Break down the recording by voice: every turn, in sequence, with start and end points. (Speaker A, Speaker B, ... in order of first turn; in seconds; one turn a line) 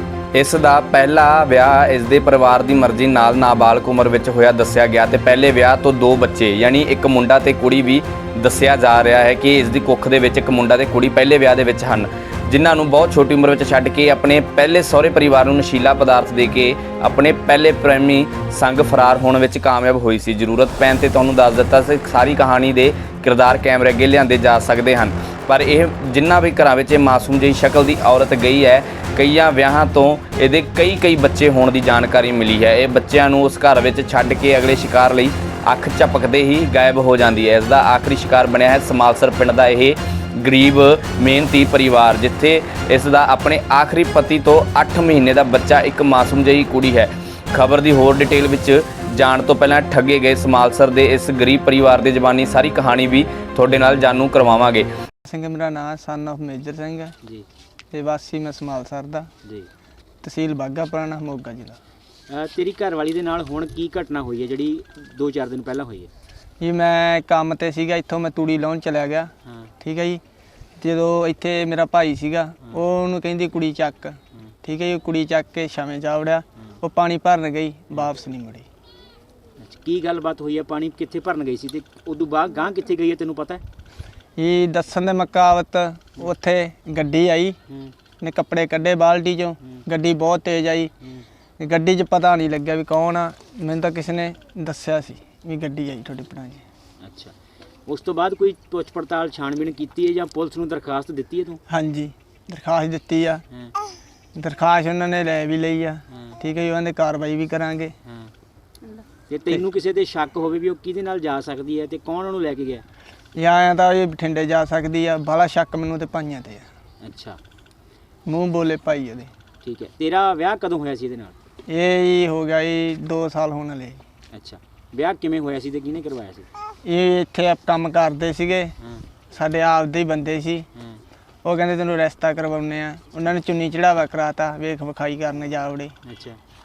Speaker A: 0.3-54.9
Speaker B: 55.2-57.1
Speaker B: 57.9-59.3
Speaker B: 60.2-61.8
Speaker C: 62.3-66.1
Speaker B: 66.6-70.2
Speaker C: 69.5-69.7
Speaker B: 70.8-78.7
Speaker C: 79.6-83.6
Speaker B: 84.4-87.6
Speaker B: 88.2-90.9
Speaker B: 91.6-96.6
Speaker C: 97.0-97.3
Speaker C: 97.9-101.6
Speaker B: 101.7-103.4
Speaker B: 104.4-107.9
Speaker C: 108.1-108.3
Speaker C: 109.3-112.8
Speaker B: 113.4-116.7
Speaker C: 117.0-117.4
Speaker B: 118.3-119.3
Speaker C: 119.6-121.3
Speaker B: 121.7-124.0
Speaker C: 124.3-126.5
Speaker B: 126.8-128.7
Speaker B: 129.3-130.7
Speaker B: 131.4-135.9
Speaker C: 136.1-136.4